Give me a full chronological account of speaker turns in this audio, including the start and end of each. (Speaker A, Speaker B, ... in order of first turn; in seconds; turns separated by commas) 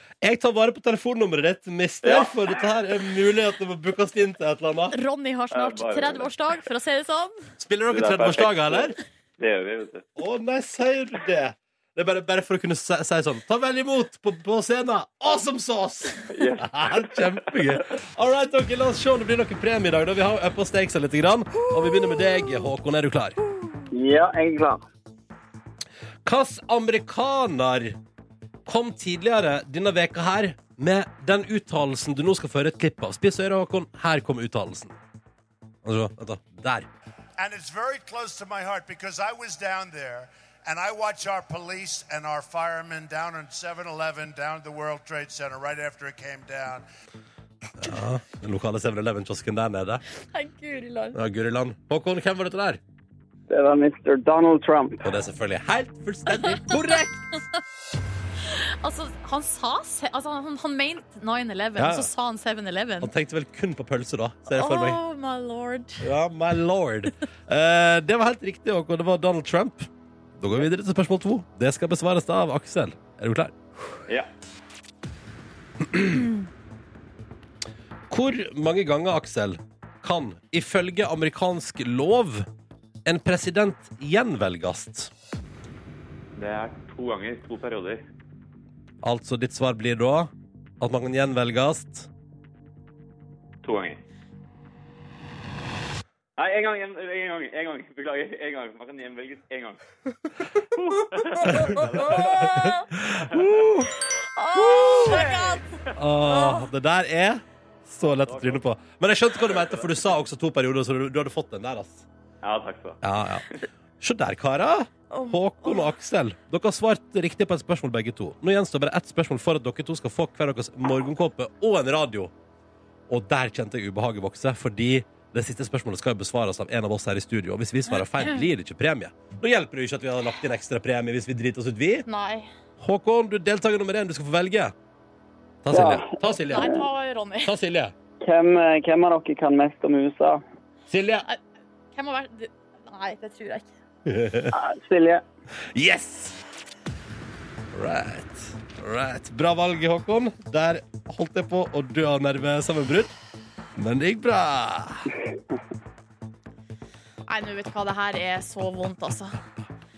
Speaker A: 0.2-4.9, Speaker B: 2.0-2.5, Speaker C: 4.9-7.3, Speaker B: 5.5-6.3, Speaker A: 7.6-8.9, Speaker B: 7.9-10.1, Speaker A: 10.2-23.4, Speaker B: 16.3-17.8, Speaker C: 21.6-22.2, Speaker C: 23.6-23.8, Speaker D: 23.9-24.8, Speaker A: 26.2-28.0, Speaker A: 28.6-35.0, Speaker A: 35.8-36.9, Speaker E: 37.4-46.9, Speaker A: 47.8-50.0, Speaker C: 50.3-51.2, Speaker A: 51.1-52.8, Speaker D: 53.5-55.0, Speaker A: 55.0-57.1, Speaker C: 56.3-57.4, Speaker C: 58.4-63.1, Speaker A: 61.8-62.1, Speaker A: 63.0-65.0, Speaker C: 64.5-66.0, Speaker A: 66.0-73.5, Speaker A: 75.8-76.3, Speaker A: 78.1-82.5, Speaker A: 83.0-85.1, Speaker B: 86.4-88.0, Speaker A: 89.0-92.1, Speaker B: 93.6-94.0, Speaker B: 96.4-99.8, Speaker B: 100.7-102.5, Speaker A: 101.4-103.9, Speaker C: 101.5-102.8, Speaker C: 104.3-106.7, Speaker A: 104.6-104.9, Speaker B: 105.0-105.9, Speaker A: 105.9-112.0, Speaker B: 108.0-108.6, Speaker B: 109.4-109.9, Speaker B: 112.4-113.0, Speaker A: 113.0-113.5, Speaker A: 114.0-122.3, Speaker C: 115.1-115.9, Speaker A: 123.1-132.1, Speaker C: 132.1-132.5, Speaker A: 132.8-134.7, Speaker A: 135.6-136.8, Speaker D: 135.7-136.8, Speaker C: 136.5-137.5, Speaker A: 137.4-137.9, Speaker D: 138.2-140.4, Speaker A: 140.9-141.2, Speaker C: 141.9-143.7, Speaker A: 144.1-144.5, Speaker D: 144.5-145.2, Speaker A: 145.7-146.4, Speaker A: 147.7-153.1, Speaker A: 153.8-155.1, Speaker C: 157.3-159.4